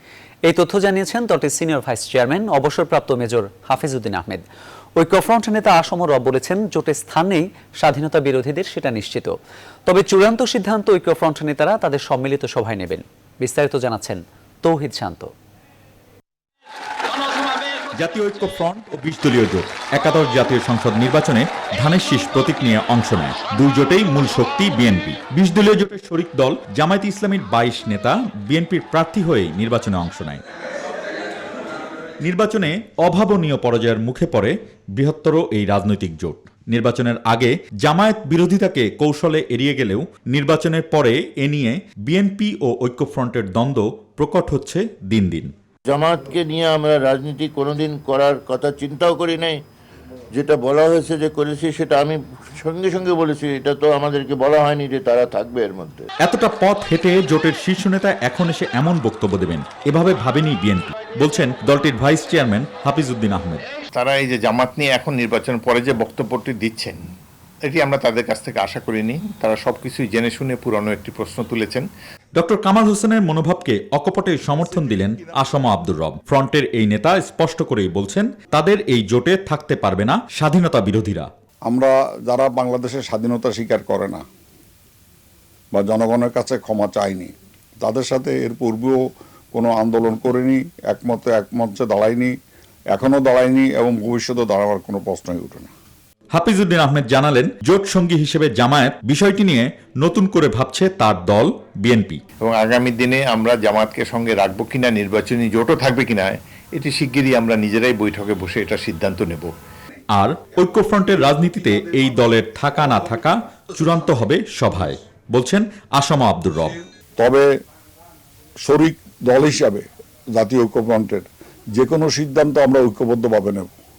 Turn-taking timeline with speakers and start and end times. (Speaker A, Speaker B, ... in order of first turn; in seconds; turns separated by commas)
Speaker A: 0.5-4.4, Speaker A: 5.0-9.3, Speaker A: 9.9-15.3, Speaker B: 17.9-30.4, Speaker B: 32.2-45.5, Speaker C: 45.9-49.6, Speaker C: 50.3-56.1, Speaker B: 56.2-63.6, Speaker D: 63.9-67.0, Speaker D: 67.7-71.9, Speaker B: 72.4-81.3, Speaker E: 81.7-84.2, Speaker E: 85.7-89.0, Speaker E: 89.5-92.3, Speaker E: 92.9-95.7, Speaker B: 96.3-102.2, Speaker D: 102.4-109.5, Speaker B: 110.2-116.8, Speaker E: 117.2-117.5, Speaker E: 118.6-119.8, Speaker E: 120.3-123.7